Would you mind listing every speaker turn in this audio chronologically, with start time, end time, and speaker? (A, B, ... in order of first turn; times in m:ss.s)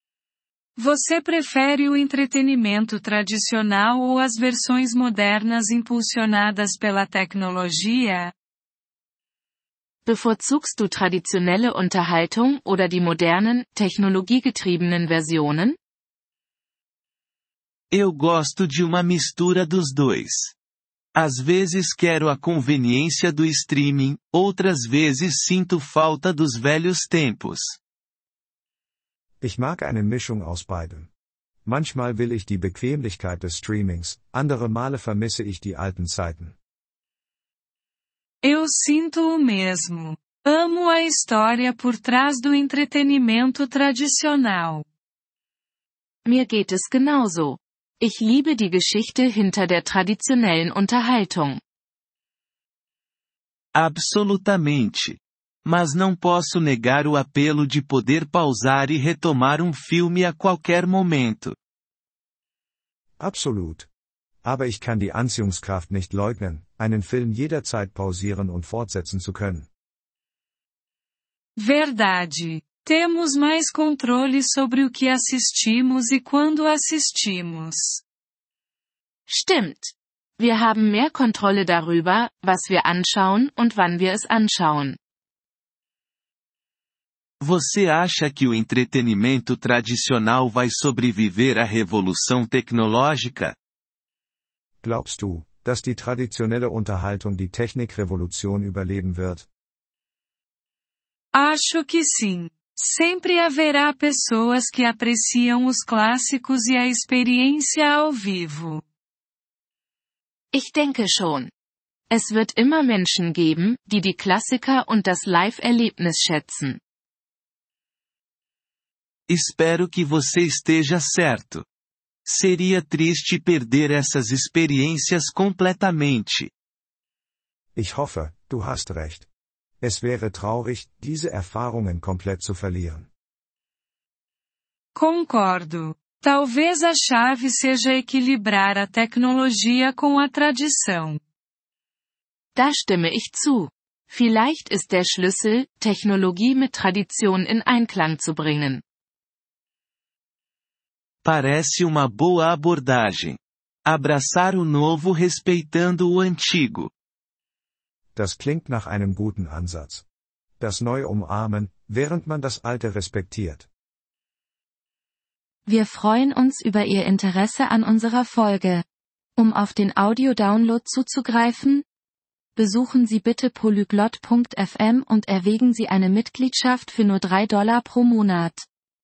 0:00.8-0:08.3 A
0:10.1-0:15.8 B
0:17.9-0:20.6 C
0:21.2-0:27.8 C
0:29.4-0:31.1 D
0:31.6-0:36.6 D
0:38.4-0:44.8 A
0:46.3-0:51.6 B
0:53.8-1:01.6 C
1:03.2-1:03.9 D
1:04.4-1:09.7 D
1:11.6-1:18.0 A
1:19.3-1:25.0 B
1:27.4-1:33.6 C
1:34.8-1:39.5 D
1:41.3-1:48.8 A
1:50.5-1:51.5 B
1:52.1-1:56.8 B
1:59.3-2:01.6 C
2:02.2-2:06.5 C
2:07.8-2:09.3 D
2:09.8-2:13.1 D
2:15.0-2:21.2 A
2:22.6-2:28.8 B
2:31.2-2:36.9 C
2:38.2-2:40.0 D
2:40.6-2:43.7 D
2:45.7-2:48.8 E
2:49.4-2:51.8 E
2:52.6-2:58.6 E